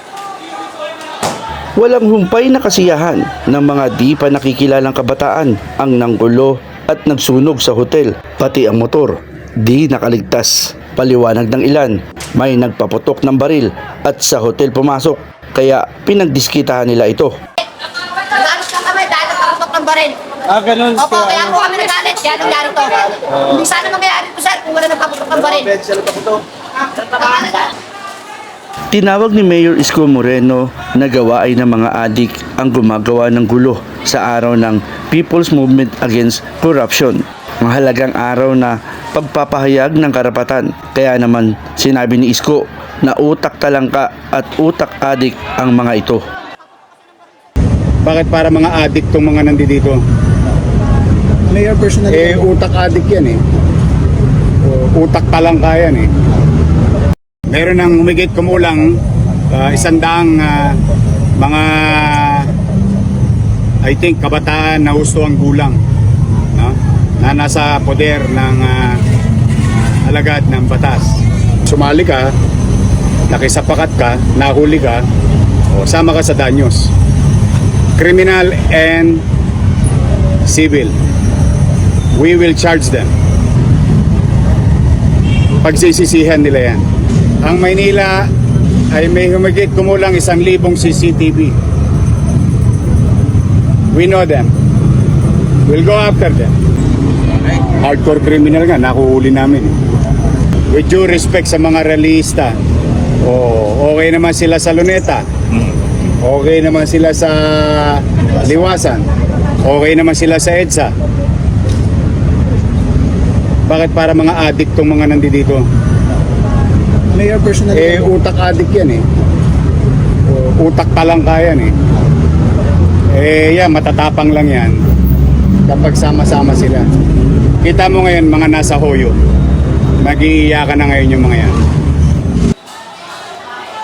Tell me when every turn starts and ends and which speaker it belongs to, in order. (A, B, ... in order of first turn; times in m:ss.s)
0:01.8-0:17.3 A
0:18.0-0:26.4 B
0:27.0-0:27.7 B
0:28.9-0:46.2 A
0:48.0-0:50.0 C
0:51.5-0:52.4 D
0:52.1-0:53.4 C
0:54.6-0:56.1 C
0:57.5-0:59.0 C
0:59.5-1:00.8 C
1:01.4-1:02.5 C
1:03.8-1:05.8 C
1:06.5-1:09.0 C
1:09.7-1:12.3 C
1:13.3-1:15.0 C
1:15.7-1:16.9 C
1:18.0-1:19.2 C
1:20.4-1:20.9 C
1:22.1-1:23.1 C
1:25.6-1:26.8 C
1:27.4-1:28.3 C
1:28.9-1:31.6 C
1:33.9-1:34.5 C
1:35.7-1:36.5 C
1:37.7-1:39.7 C
1:40.7-1:42.6 C
1:43.2-1:45.2 C
1:46.2-1:49.1 C
1:49.6-1:50.9 C
1:53.7-1:55.6 C
1:57.1-1:58.0 D
1:57.7-1:59.0 C
2:00.3-2:01.7 C
2:03.1-2:04.8 C
2:05.7-2:06.8 C
2:07.6-2:09.2 C
2:10.0-2:11.5 C